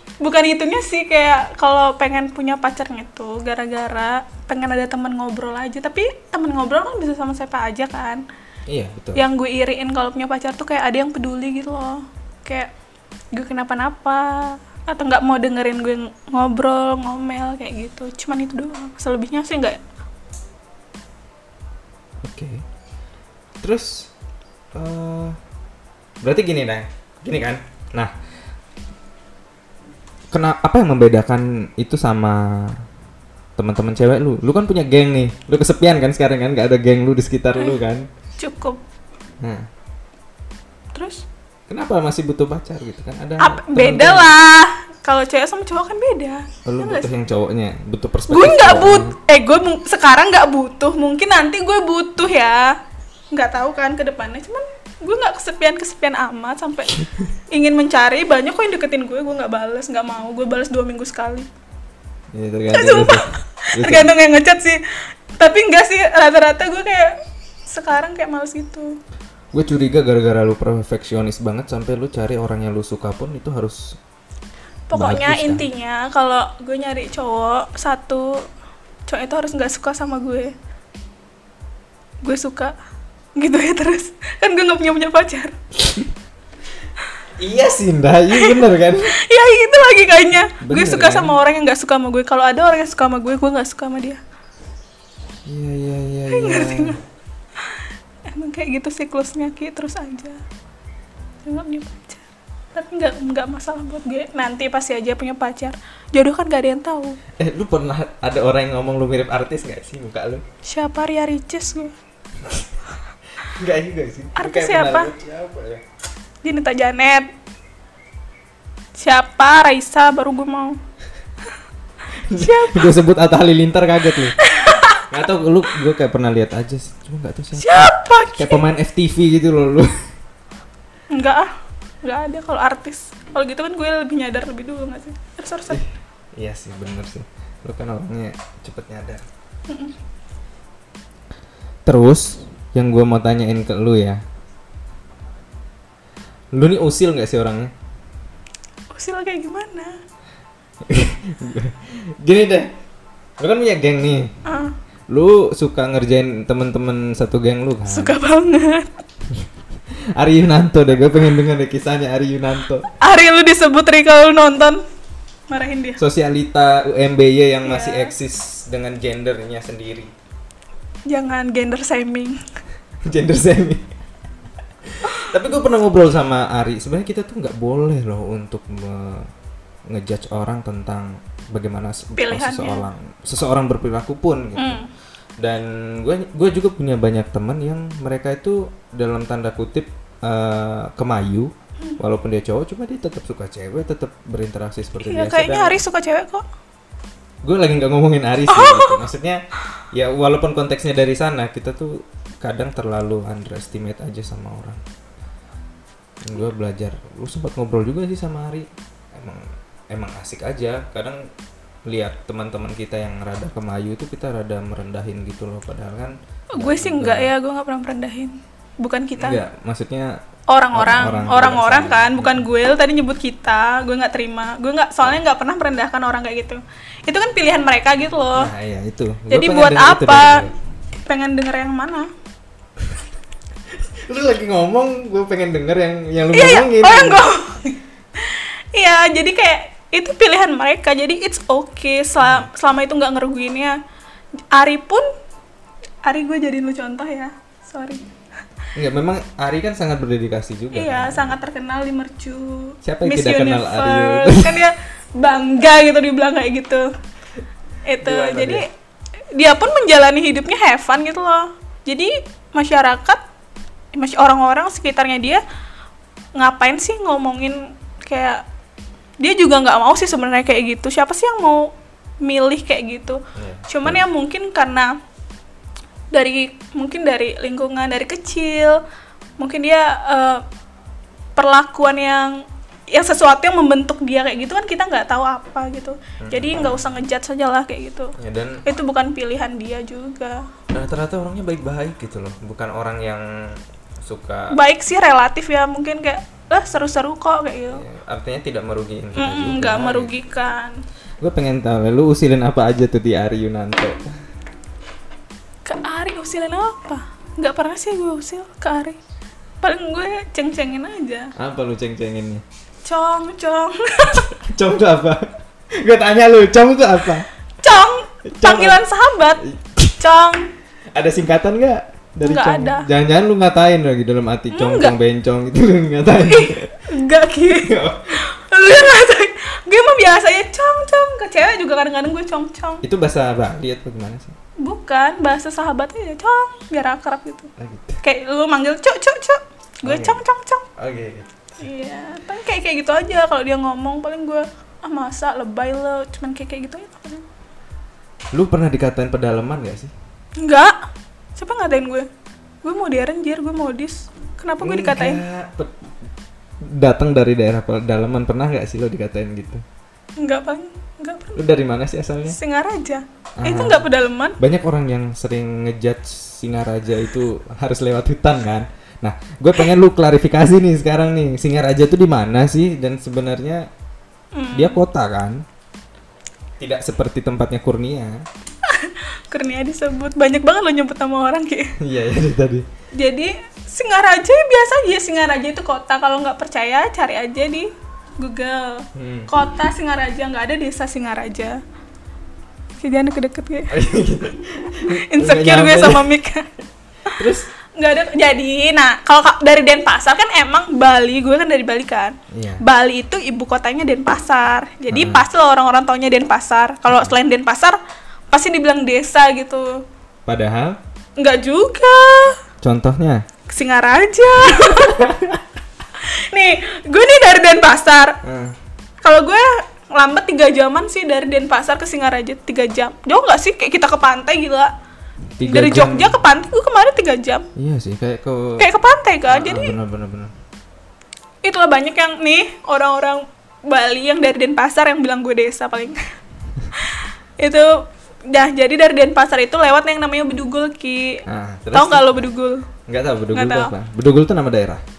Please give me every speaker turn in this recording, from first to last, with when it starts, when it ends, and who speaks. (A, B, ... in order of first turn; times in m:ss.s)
0:00.2-0:08.2 A
0:08.7-0:09.2 B
0:09.1-0:12.7 A
0:13.3-0:19.8 A
0:22.2-0:22.6 B
0:23.6-0:24.1 B
0:24.7-0:25.4 B
0:26.2-0:28.1 B
0:30.3-0:32.8 B
0:33.6-0:38.1 B
0:38.4-0:38.8 A
0:39.4-0:39.7 B
0:40.9-0:41.2 A
0:41.7-0:44.4 B
0:43.4-0:47.1 A
0:46.6-0:49.2 B
0:48.3-0:52.8 A
0:53.3-1:01.5 A
1:02.3-1:04.1 B
1:02.7-1:04.8 A
1:05.4-1:07.1 A
1:07.7-1:08.9 A
1:09.5-1:14.0 B
1:14.9-1:18.4 A
1:14.9-1:15.7 B
1:19.1-1:20.5 A
1:22.2-1:22.7 A
1:23.4-1:25.6 A
1:27.4-1:29.1 B
1:28.3-1:34.2 A
1:30.6-1:31.4 B
1:35.4-1:37.0 B
1:36.3-1:37.0 A
1:37.6-1:40.4 A
1:41.4-1:47.2 A
1:47.4-1:50.4 B
1:50.6-1:51.9 A
1:53.4-1:55.8 B
1:54.4-1:55.1 A
1:56.4-1:57.3 A
1:59.0-2:00.8 A
2:02.3-2:04.4 B
2:02.4-2:03.0 A
2:04.4-2:05.0 A
2:05.1-2:09.9 B
2:07.6-2:08.6 A
2:11.1-2:11.5 A
2:12.0-2:15.8 A
2:15.7-2:19.2 B
2:19.7-2:19.9 A
2:21.8-2:24.2 B
2:26.5-2:27.7 B
2:28.9-2:30.0 A
2:30.8-2:32.7 B
2:33.4-2:34.3 B
2:34.4-2:34.7 A
2:35.1-2:38.2 B
2:37.9-2:38.9 A
2:40.2-2:42.9 B
2:43.0-2:44.8 A
2:45.5-2:46.0 A
2:46.0-2:50.1 B
2:47.6-2:48.1 A
2:51.1-2:52.4 A
2:53.0-2:53.9 B
2:54.9-2:59.3 B
2:59.9-3:04.8 B
3:02.2-3:02.9 A
3:04.6-3:04.9 A
3:05.4-3:15.8 B
3:15.0-3:16.4 A
3:17.4-3:24.8 B
3:18.5-3:19.0 A
3:26.2-3:31.2 B
3:31.9-3:37.3 B
3:36.5-3:39.4 A
3:39.2-3:40.2 B
3:40.5-3:48.5 A
3:40.7-3:42.4 B
3:48.3-3:50.5 B
3:49.3-3:50.4 A
3:51.0-3:52.1 A
3:53.8-3:57.2 B
3:56.3-4:03.8 A
4:02.2-4:02.5 B
4:04.5-4:05.1 A
4:06.0-4:08.0 A
4:08.7-4:11.3 B
4:10.7-4:16.9 A
4:12.8-4:14.7 B
4:17.8-4:18.6 A
4:18.0-4:18.6 B
4:19.3-4:23.2 A
4:23.9-4:25.4 A
4:26.4-4:28.4 A
4:29.2-4:31.7 A
4:32.2-4:34.9 A
4:33.4-4:34.0 B
4:36.1-4:38.8 A
4:39.4-4:40.4 A
4:41.4-4:48.1 A
4:46.2-4:47.0 B
4:48.2-4:48.6 B
4:48.6-4:50.4 A
4:50.7-4:53.2 B
4:54.0-4:54.6 B
4:54.5-4:57.8 A
4:57.7-5:00.1 B
4:59.2-5:00.8 A
5:01.2-5:04.0 B
5:05.6-5:09.0 A
5:09.6-5:11.3 A
5:11.4-5:12.4 B
5:12.8-5:14.3 A
5:14.2-5:17.2 B
5:17.6-5:19.4 A
5:18.3-5:18.8 B
5:19.4-5:19.9 B
5:20.0-5:20.5 A
5:20.9-5:26.8 B
5:22.2-5:22.9 A
5:24.5-5:25.0 A
5:26.2-5:32.8 A
5:27.5-5:28.2 B
5:32.8-5:34.3 B
5:34.6-5:37.5 A
5:37.6-5:38.0 B
5:38.0-5:40.6 A
5:39.8-5:40.2 B
5:40.8-5:41.5 B
5:41.6-5:47.2 A
5:48.3-5:49.9 B
5:50.4-5:50.7 A
5:51.4-5:52.1 A
5:52.6-5:55.2 A
5:54.6-5:55.7 B
5:56.6-5:59.6 B
6:00.2-6:01.4 A
6:01.4-6:02.4 B
6:02.2-6:04.4 A
6:03.4-6:03.8 B
6:04.4-6:13.7 B
6:14.3-6:14.8 A
6:14.5-6:15.4 B
6:16.6-6:18.2 B
6:18.6-6:21.7 A
6:21.8-6:22.6 B
6:22.9-6:31.6 A
6:28.9-6:29.3 B
6:32.8-6:33.7 A
6:33.7-6:36.1 B
6:34.8-6:36.5 A
6:37.1-6:37.5 B
6:37.8-6:47.8 A
6:42.3-6:42.6 B
6:44.9-6:45.2 B
6:46.9-6:47.1 B
6:48.3-6:49.8 A
6:50.2-6:50.8 B
6:51.2-6:52.4 A
6:52.6-6:53.2 B
6:53.5-6:55.0 A
6:54.4-6:55.4 B
6:56.0-6:58.2 A
6:58.2-6:58.6 B
6:59.0-7:04.7 A
7:05.4-7:06.2 B
7:05.4-7:07.5 A
7:07.6-7:08.7 B
7:08.6-7:09.7 A
7:09.3-7:10.3 B
7:11.4-7:16.0 A
7:16.7-7:22.6 A
7:21.3-7:22.3 B
7:22.9-7:24.8 B
7:23.3-7:23.7 A